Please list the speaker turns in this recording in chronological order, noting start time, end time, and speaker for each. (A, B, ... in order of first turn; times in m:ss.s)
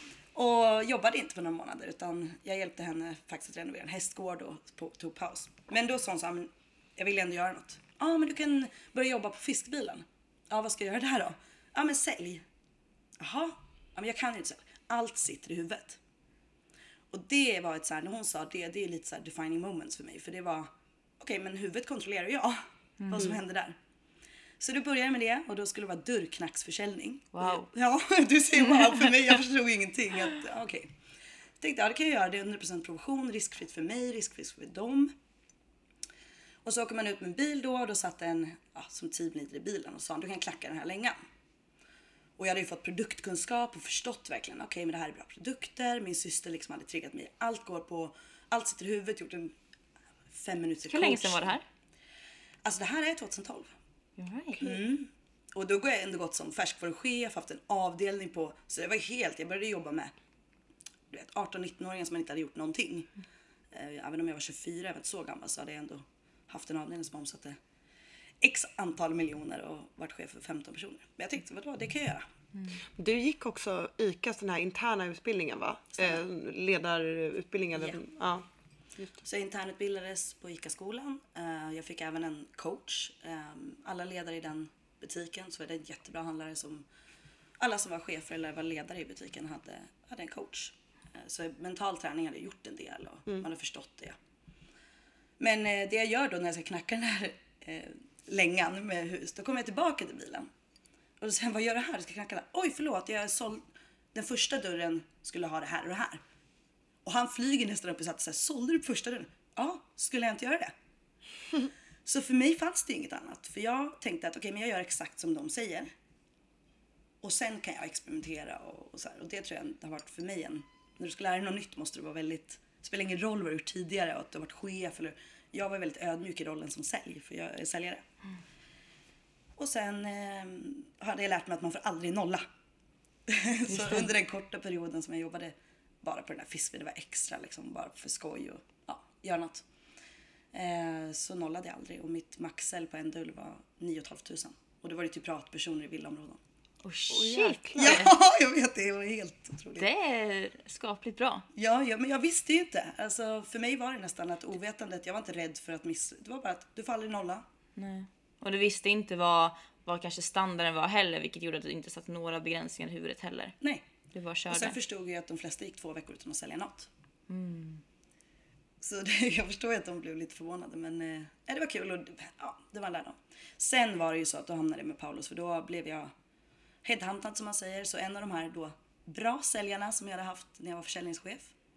0:00.3-0:12.4 A
0:13.2-0:16.0 A
0:17.1-0:23.8 A
0:23.0-0:23.3 B
0:24.6-0:30.9 A
0:27.3-0:27.7 B
0:31.6-0:35.1 A
0:36.6-0:41.1 A
0:42.4-0:49.5 A
0:50.3-0:51.6 A
0:50.9-0:51.6 B
0:52.6-0:53.7 A
0:54.2-0:54.6 B
0:54.6-1:00.1 A
1:01.1-1:03.1 A
1:03.7-1:07.6 A
1:08.4-1:12.2 A
1:13.0-1:18.4 C
1:19.2-1:26.8 A
1:27.6-1:34.2 A
1:35.4-1:40.5 A
1:41.2-1:46.2 A
1:47.0-1:50.7 A
1:52.0-1:55.9 A
1:57.2-2:08.0 A
2:09.6-2:12.4 A
2:13.3-2:19.6 A
2:13.8-2:14.0 B
2:20.5-2:26.4 A
2:26.8-2:28.1 B
2:27.1-2:28.0 C
2:27.8-2:29.9 A
2:29.8-2:31.4 B
2:31.5-2:37.4 A
2:37.8-2:43.5 B
2:43.6-2:43.8 A
2:44.1-2:44.8 B
2:44.5-2:46.9 A
2:47.3-2:47.8 B
2:48.8-2:56.1 A
2:56.8-3:01.5 A